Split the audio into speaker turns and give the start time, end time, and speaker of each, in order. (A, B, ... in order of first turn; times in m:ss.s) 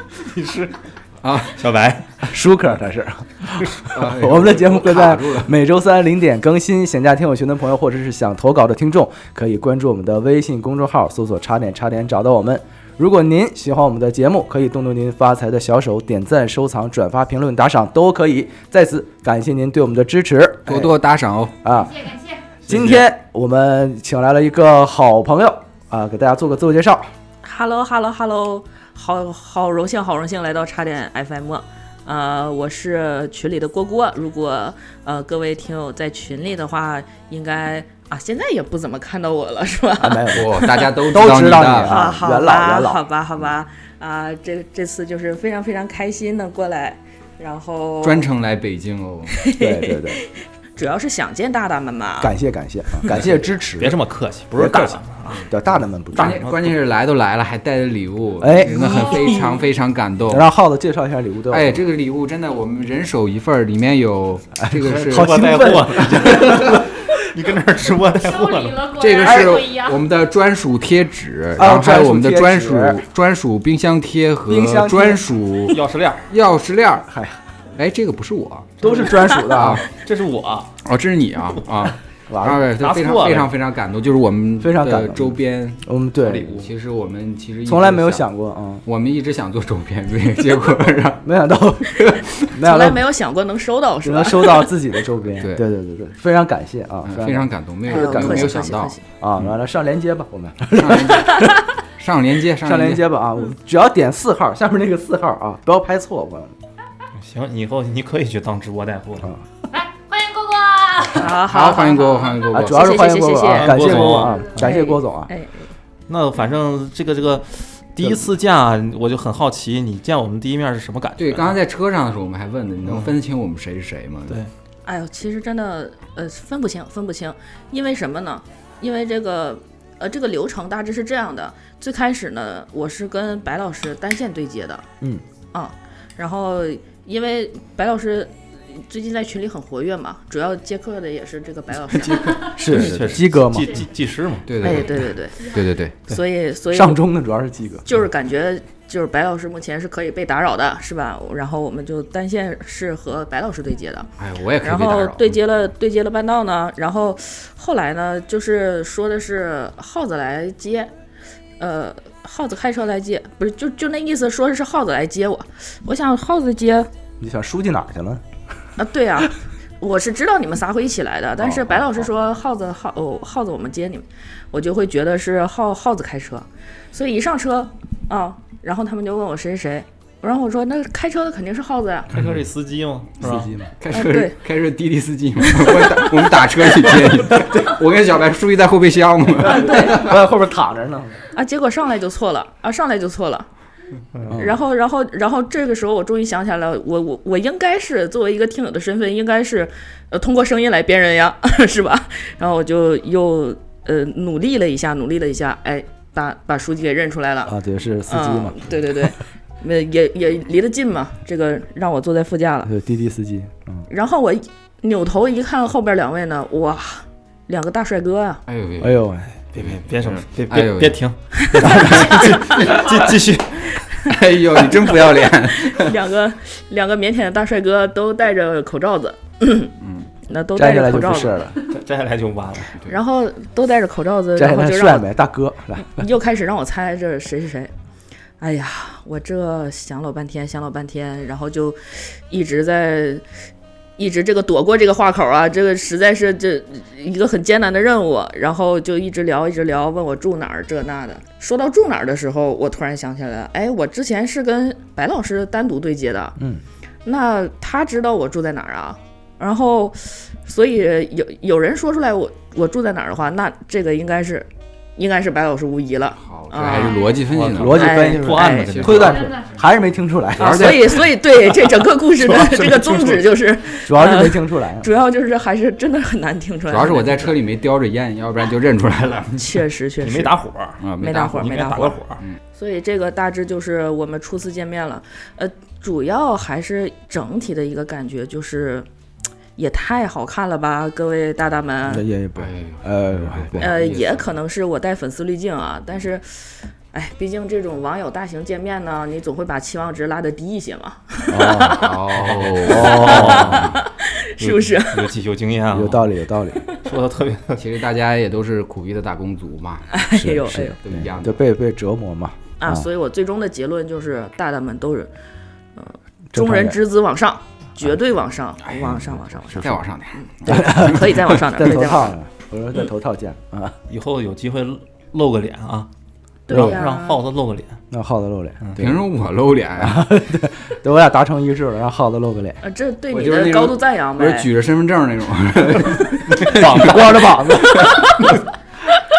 0:00.2-0:00.8 A
0:01.2-0:01.6 B
0:01.5-0:02.1 A
0:02.2-0:20.9 C
0:03.9-0:05.5 B
0:20.7-0:21.6 B
0:21.6-0:22.0 C
0:21.7-0:22.4 D
0:22.7-0:23.0 A
0:22.7-0:27.1 C
0:27.4-0:40.9 E
0:40.0-0:43.0 C
0:40.3-0:42.1 B
0:41.8-0:48.3 E
0:48.0-0:49.5 B
0:49.3-0:52.4 E
0:49.6-0:50.2 C
0:52.2-0:54.0 C
0:53.2-0:55.4 A
0:54.5-0:56.4 C
0:56.1-1:00.5 B
0:56.2-0:56.7 A
0:58.4-0:59.3 C
0:59.0-0:59.4 E
1:00.3-1:01.8 C
1:01.5-1:06.0 B
1:04.6-1:06.8 C
1:04.9-1:08.8 A
1:08.2-1:10.0 D
1:09.0-1:15.8 B
1:09.3-1:09.6 C
1:11.6-1:13.0 C
1:14.5-1:15.4 C
1:15.7-1:16.3 A
1:16.3-1:17.1 B
1:17.1-1:17.4 C
1:17.8-1:19.8 B
1:18.8-1:19.8 C
1:19.8-1:20.7 A
1:20.8-1:28.3 B
1:22.3-1:22.7 C
1:22.8-1:23.5 A
1:24.6-1:26.6 C
1:27.6-1:28.8 C
1:28.9-1:31.2 B
1:31.2-1:33.1 C
1:32.6-1:34.8 E
1:34.0-1:41.6 C
1:35.4-1:35.6 B
1:37.0-1:39.5 B
1:37.9-1:39.0 E
1:40.7-1:43.1 B
1:42.6-1:46.6 C
1:47.2-1:49.3 A
1:49.7-1:51.3 D
1:51.2-1:54.0 E
1:51.2-1:53.2 B
1:52.5-1:55.3 C
1:53.5-1:54.5 A
1:54.6-1:55.7 E
1:56.1-2:01.6 A
2:01.2-2:04.4 B
2:02.8-2:03.2 A
2:04.9-2:14.9 E
2:15.5-2:22.5 E
2:22.2-2:23.9 C
2:22.6-2:24.8 A
2:24.5-2:25.9 B
2:24.6-2:25.5 E
2:24.8-2:25.7 D
2:26.1-2:27.0 E
2:26.7-2:27.8 C
2:27.8-2:40.9 E
2:34.2-2:35.4 B
2:41.6-2:46.9 E
2:47.2-2:48.2 C
2:48.8-3:02.1 E
3:02.1-3:03.5 A
3:03.2-3:03.7 C
3:03.8-3:10.2 B
3:03.9-3:04.4 E
3:05.7-3:06.4 E
3:09.4-3:10.1 E
3:09.6-3:11.2 C
3:11.3-3:13.5 E
3:14.2-3:14.6 C
3:14.3-3:32.7 E
3:27.5-3:29.0 C
3:32.6-3:33.9 C
3:33.9-3:38.4 E
3:38.5-3:39.0 B
3:38.8-3:39.3 C
3:39.4-3:44.0 A
3:39.6-3:41.0 B
3:41.4-3:42.9 E
3:41.6-3:42.2 B
3:44.0-3:46.0 B
3:45.2-3:49.7 E
3:49.8-3:50.1 B
3:50.3-3:51.4 E
3:50.6-3:51.7 C
3:51.7-3:52.7 A
3:52.8-3:55.1 E
3:54.4-3:56.1 C
3:55.8-3:57.7 E
3:58.4-4:03.2 E
4:04.0-4:16.4 E
4:16.4-4:16.6 C
4:17.0-4:27.1 E
4:26.2-4:27.9 B
4:26.7-4:27.2 D
4:27.2-4:29.3 A
4:27.5-4:30.7 C
4:27.7-4:28.7 E
4:28.7-4:29.3 B
4:29.0-4:29.6 D
4:30.4-4:31.1 B
4:30.4-4:37.4 E
4:31.5-4:33.3 A
4:33.8-4:34.9 C
4:36.7-4:39.6 B
4:39.4-4:40.3 E
4:40.0-4:42.2 A
4:40.8-4:41.5 B
4:41.0-4:42.0 E
4:42.6-4:48.9 E
4:49.6-4:52.1 E
4:51.9-4:53.7 C
4:52.4-4:54.3 B
4:53.6-5:01.8 E
5:01.3-5:01.9 C
5:01.7-5:03.8 B
5:02.1-5:03.8 A
5:02.6-5:03.6 C
5:02.8-5:05.1 E
5:04.4-5:06.1 A
5:05.7-5:06.6 C
5:06.7-5:07.6 A
5:07.6-5:09.9 B
5:09.9-5:10.8 E
5:10.1-5:12.9 C
5:10.8-5:11.4 B
5:12.6-5:15.1 E
5:15.8-5:22.1 E
5:16.3-5:16.8 C
5:18.6-5:21.0 B
5:19.5-5:19.8 A
5:20.5-5:23.8 C
5:23.9-5:25.9 A
5:26.5-5:27.2 E
5:26.5-5:27.8 A
5:26.5-5:26.8 C
5:27.9-5:29.0 C
5:28.6-5:28.9 A
5:28.8-5:30.0 B
5:29.8-5:32.6 C
5:32.6-5:34.5 E
5:33.1-5:37.1 B
5:36.3-5:37.4 A
5:36.6-5:38.0 C